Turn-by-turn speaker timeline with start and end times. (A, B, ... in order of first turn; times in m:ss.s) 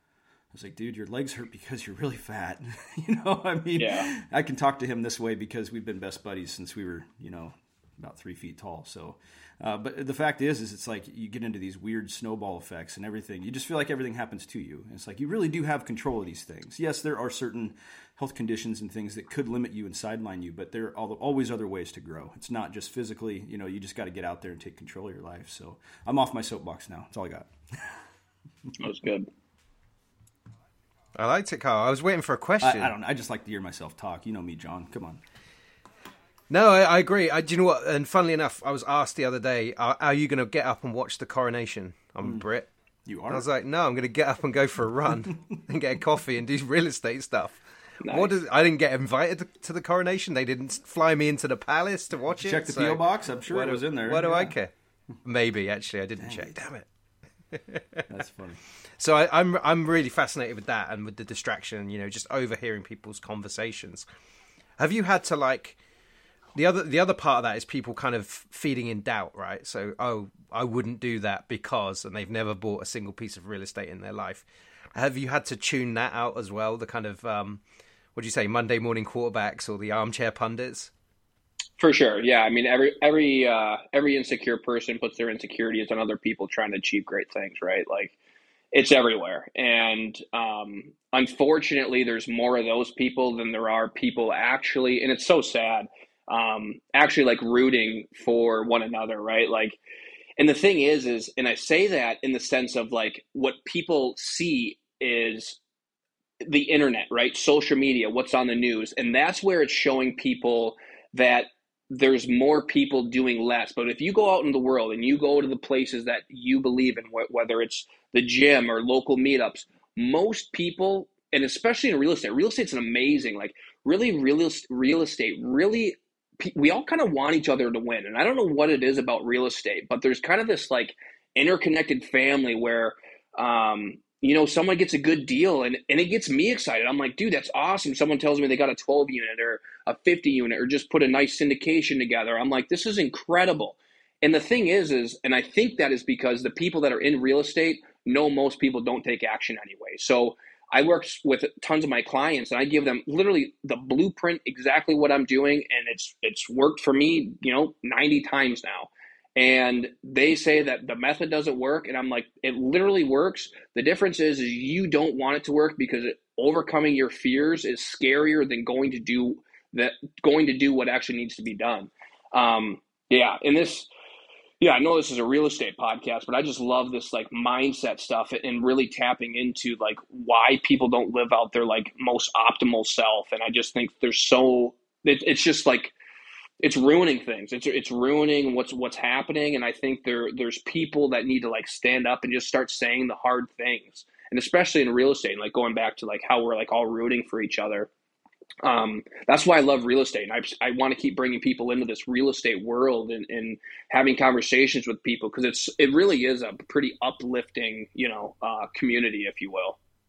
0:00.5-0:28.0 A
0:03.8-0:04.1 B
0:28.8-0:29.3 B
0:31.1-0:32.9 C
0:32.6-0:35.2 A
0:36.5-0:42.7 C
0:43.0-0:43.5 A
0:43.3-0:54.7 C
0:48.0-0:48.4 B
0:52.3-0:54.6 A
0:55.2-0:56.9 C
0:56.2-0:56.5 A
0:57.5-0:58.0 C
0:58.1-0:58.6 A
0:59.0-1:04.0 C
1:04.8-1:05.8 C
1:06.5-1:17.6 C
1:18.1-1:20.9 C
1:21.8-1:28.2 B
1:28.7-1:39.8 B
1:40.4-1:45.6 B
1:46.4-2:53.9 B
2:54.6-3:05.9 B
3:06.6-3:17.9 B
3:18.6-3:29.8 B